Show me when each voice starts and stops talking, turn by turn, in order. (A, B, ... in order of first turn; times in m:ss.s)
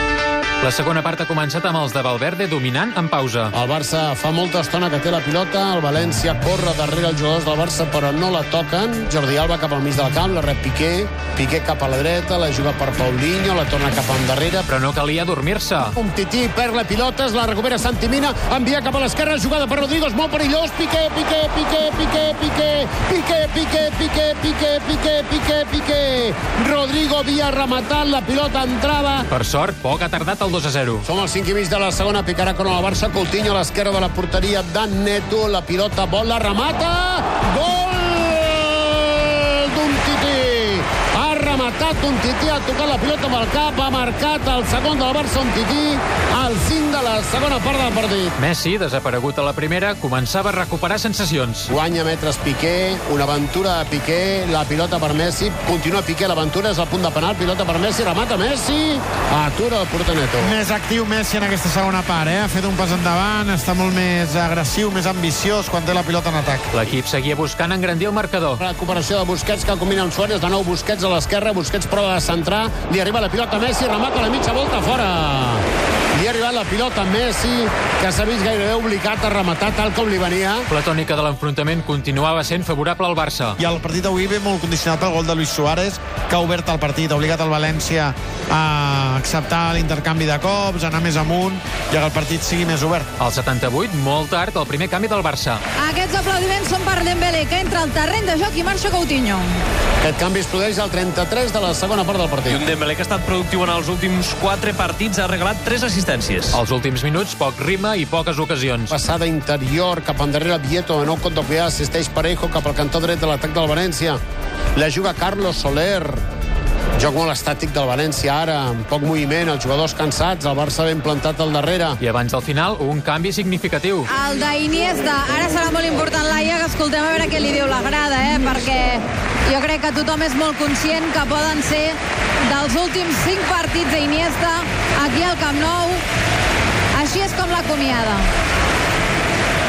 0:00.6-0:03.5 A
0:03.5-0:14.7 B
0:14.7-0:15.9 A
0:16.0-0:29.3 B
0:29.3-0:31.0 A
0:31.0-0:48.3 B
0:48.4-0:51.7 A
0:51.7-1:00.6 B
1:00.4-1:06.7 C
1:06.7-1:08.6 A
1:08.6-1:20.7 B
1:20.7-1:23.6 A
1:23.6-1:33.1 C
1:33.2-1:35.6 A
1:35.8-1:39.6 D
1:40.0-1:42.6 B
1:42.5-1:46.6 E
1:46.5-1:48.9 A
1:48.9-1:54.2 B
1:54.7-1:56.2 B
1:56.9-2:02.0 B
2:02.0-2:04.1 A
2:04.1-2:16.0 D
2:17.0-2:18.3 D